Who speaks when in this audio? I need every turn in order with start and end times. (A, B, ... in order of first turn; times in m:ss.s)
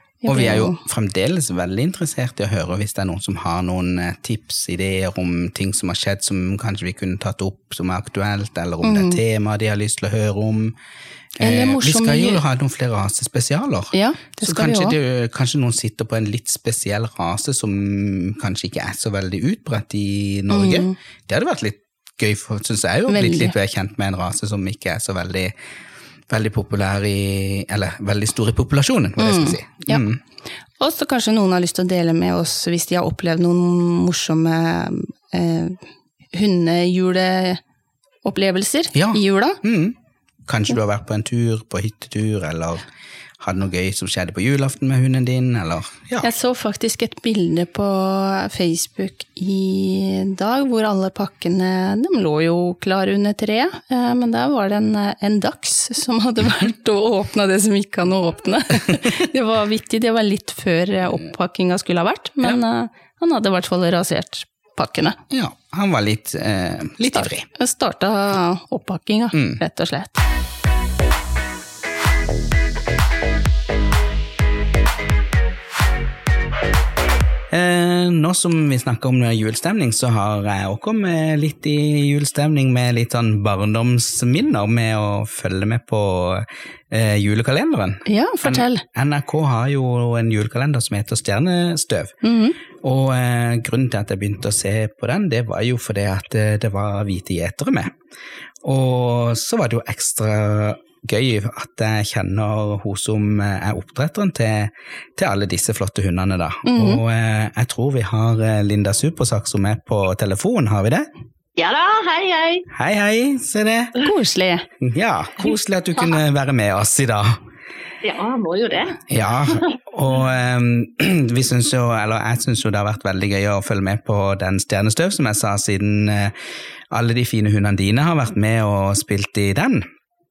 0:00.2-0:00.8 A
0:00.3-0:10.7 B
0:08.8-0:09.2 A
0:11.4-0:25.5 B
0:11.4-0:12.4 A
0:13.9-0:14.9 A
0:20.5-0:21.0 A
0:23.1-0:23.5 A
0:26.3-0:30.2 B
0:29.2-0:30.0 A
0:30.8-0:35.8 A
0:36.3-0:37.6 A
0:38.2-0:39.6 A
0:38.9-0:42.8 B
0:43.4-0:46.3 B
0:46.2-1:05.2 A
1:05.3-1:07.4 B
1:07.1-1:10.2 A
1:09.3-1:09.6 B
1:17.5-1:32.1 B
1:28.0-1:28.8 A
1:32.2-1:32.6 A
1:32.8-1:37.9 B
1:38.6-1:51.1 B
1:46.6-1:47.0 A
1:51.6-1:52.7 C
1:52.7-1:54.0 B
1:54.0-1:54.7 A
1:54.8-1:57.4 B
1:58.0-1:59.7 C
1:59.1-2:06.3 B
2:06.9-2:09.8 B